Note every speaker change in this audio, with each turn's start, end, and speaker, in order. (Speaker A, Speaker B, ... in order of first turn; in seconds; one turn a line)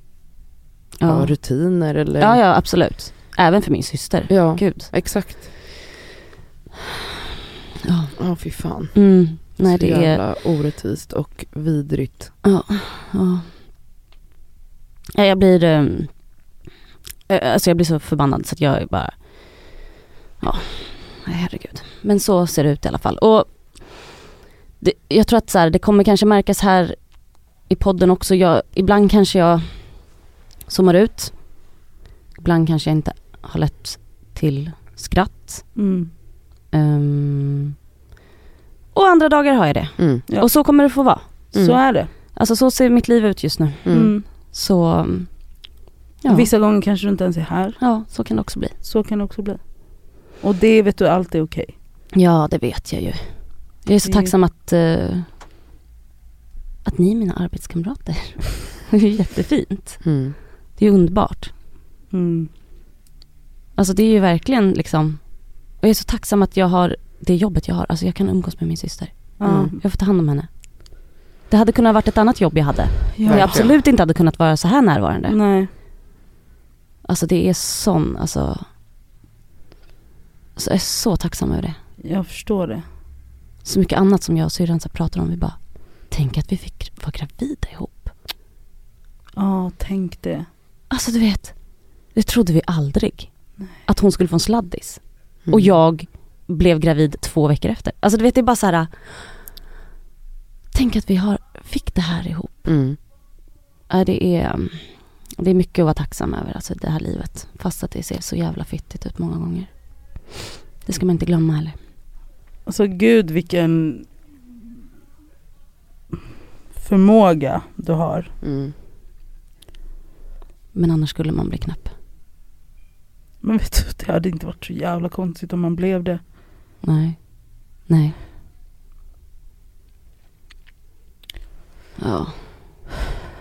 Speaker A: 1.0-1.3
Speaker B: 1.0-2.4
Speaker A: 2.2-4.9
Speaker B: 4.3-5.5
Speaker A: 7.8-8.1
Speaker B: 8.2-12.3
Speaker A: 8.9-10.2
Speaker A: 12.4-13.5
Speaker A: 15.1-16.1
Speaker A: 17.3-19.8
Speaker A: 20.4-24.1
Speaker A: 24.8-27.0
Speaker A: 27.6-30.1
Speaker A: 30.7-31.7
Speaker A: 32.4-35.8
Speaker C: 35.8-36.1
Speaker A: 36.7-37.7
Speaker A: 38.9-41.2
Speaker B: 40.0-40.2
Speaker B: 41.5-41.8
Speaker C: 41.5-42.1
Speaker A: 42.3-45.3
Speaker B: 43.8-44.1
Speaker C: 43.9-44.2
Speaker A: 46.2-46.5
Speaker C: 46.3-47.8
Speaker A: 47.8-48.7
Speaker C: 48.8-49.6
Speaker C: 50.4-51.7
Speaker A: 52.1-53.3
Speaker A: 53.8-55.3
Speaker C: 54.0-54.3
Speaker A: 56.8-60.0
Speaker B: 60.0-60.4
Speaker A: 60.8-61.5
Speaker C: 62.1-62.5
Speaker A: 63.8-65.2
Speaker A: 65.7-75.4
Speaker C: 69.4-69.7
Speaker B: 69.4-69.7
Speaker C: 73.2-73.6
Speaker B: 73.2-73.7
Speaker C: 75.3-75.7
Speaker A: 77.0-78.6
Speaker A: 80.6-81.8
Speaker C: 82.0-82.8
Speaker A: 83.6-88.1
Speaker C: 89.4-90.5
Speaker A: 90.9-91.5
Speaker A: 92.1-93.3
Speaker A: 93.8-98.9
Speaker B: 95.5-95.7
Speaker A: 100.7-102.7
Speaker B: 102.7-103.0
Speaker A: 103.9-104.8
Speaker A: 105.4-109.7
Speaker A: 110.8-111.8
Speaker C: 112.7-114.1
Speaker C: 116.8-118.3
Speaker B: 118.4-118.7
Speaker A: 120.7-121.9
Speaker C: 123.4-126.2
Speaker A: 126.8-128.1
Speaker A: 132.0-132.3